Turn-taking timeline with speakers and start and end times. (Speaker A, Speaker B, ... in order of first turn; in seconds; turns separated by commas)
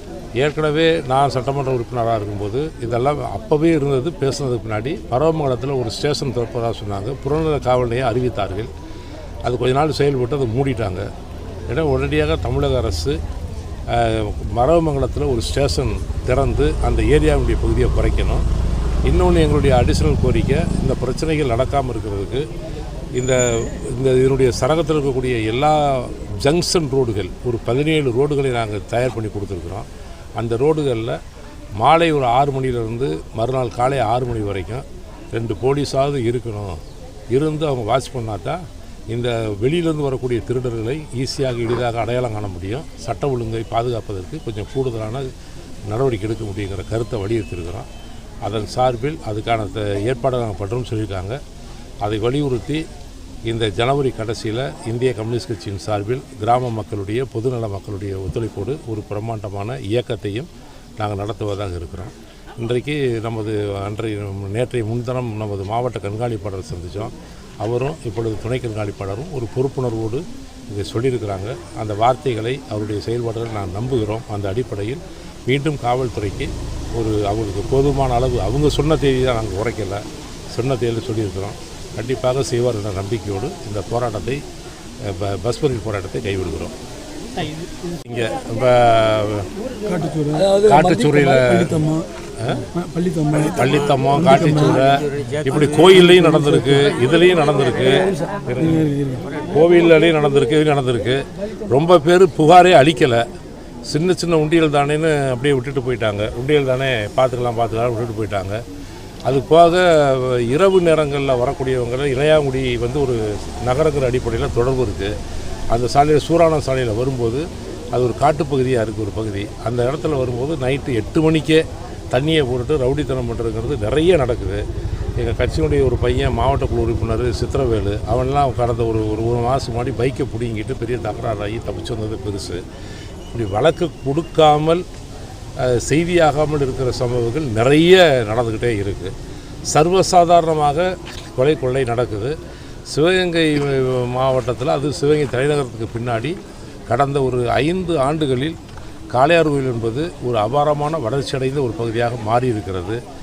Speaker A: 0.4-8.7, Speaker A: 9.4-11.1, Speaker A: 11.7-13.2, Speaker A: 13.9-18.4, Speaker A: 19.1-22.4, Speaker A: 23.2-31.2, Speaker A: 31.8-36.8, Speaker A: 37.3-45.3, Speaker A: 45.9-47.9, Speaker A: 48.4-51.4, Speaker A: 52.0-52.9, Speaker A: 53.5-60.5, Speaker A: 61.0-84.4, Speaker A: 85.0-86.7, Speaker A: 88.0-89.5, Speaker B: 89.9-92.0, Speaker A: 90.5-92.7, Speaker B: 92.8-93.5, Speaker A: 93.3-103.2, Speaker B: 94.4-94.8, Speaker B: 98.7-99.2, Speaker A: 103.9-108.6, Speaker A: 109.2-115.2, Speaker A: 115.7-124.6, Speaker A: 125.2-132.6, Speaker A: 133.3-134.8, Speaker A: 135.6-139.1, Speaker A: 139.7-142.3, Speaker A: 142.9-146.4, Speaker A: 146.9-148.6, Speaker A: 149.1-153.0